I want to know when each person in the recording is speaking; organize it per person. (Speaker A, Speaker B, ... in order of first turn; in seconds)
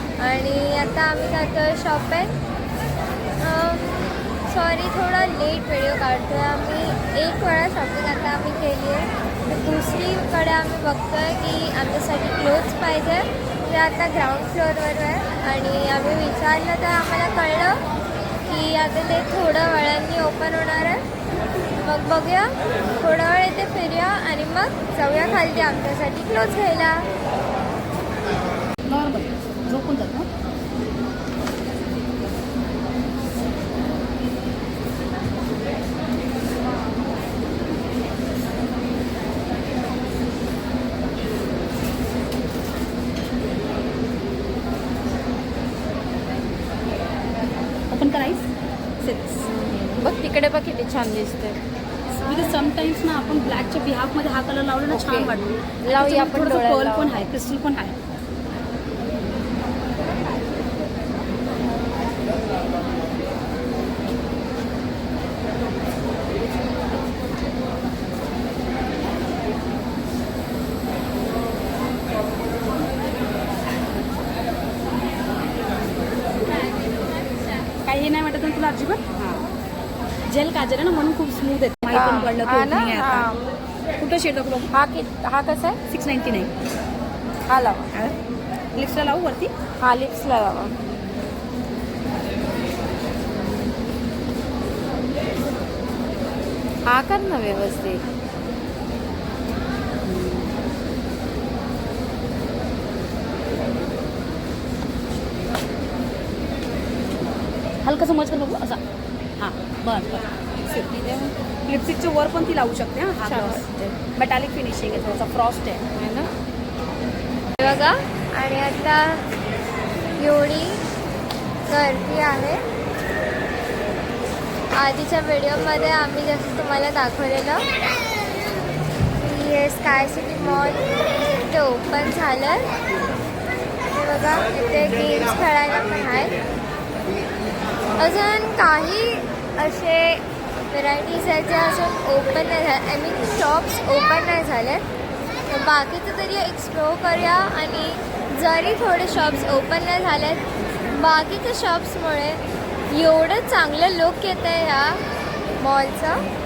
Speaker A: 0.2-2.3, 3.4-17.8, 18.4-21.0, 21.8-27.1, 117.6-119.2, 120.2-120.8, 121.7-122.6, 124.7-127.6, 129.2-132.7, 133.9-136.3, 137.9-144.8, 145.5-155.0, 155.6-156.2
Speaker B: 28.9-30.3, 47.9-48.4, 49.0-49.4, 52.2-57.9, 77.8-79.5, 80.3-83.4, 84.0-84.7, 85.9-86.5, 88.7-89.5, 100.0-100.5, 107.8-108.8, 109.4-115.8
Speaker C: 49.4-51.6, 54.9-57.2, 81.9-83.4, 84.7-85.8, 87.5-88.1, 89.8-90.7, 96.9-98.0, 113.2-114.0, 115.9-116.3